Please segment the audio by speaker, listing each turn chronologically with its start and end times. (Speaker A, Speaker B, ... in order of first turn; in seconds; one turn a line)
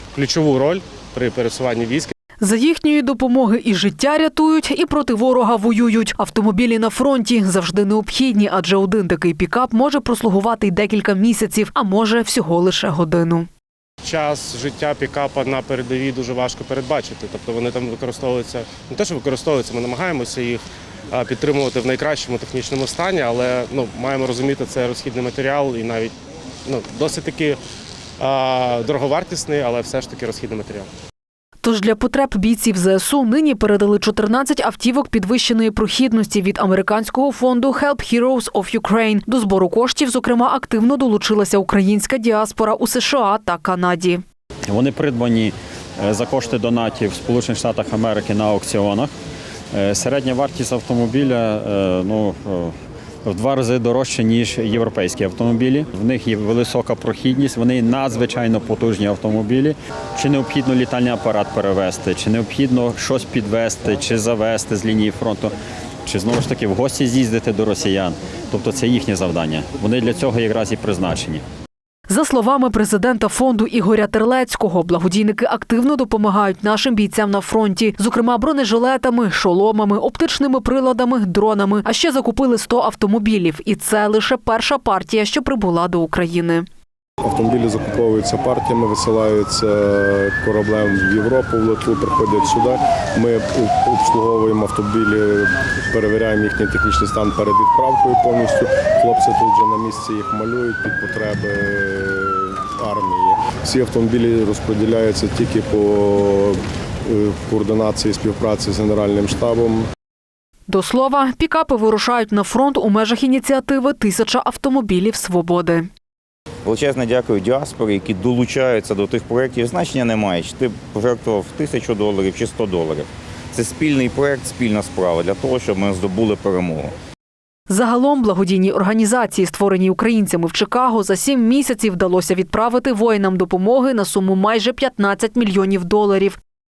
Speaker A: 0.1-2.1
Speaker B: 2.4-13.5
Speaker A: 14.0-26.1
Speaker A: 26.6-27.6
Speaker A: 28.2-30.9
Speaker B: 31.6-44.2
Speaker C: 44.7-49.1
Speaker C: 49.7-52.7
Speaker C: 53.2-65.5
Speaker C: 66.0-71.4
Speaker B: 72.1-86.6
Speaker D: 87.2-109.8
Speaker B: 110.7-115.9
Speaker E: 116.6-126.9
Speaker B: 127.7-136.4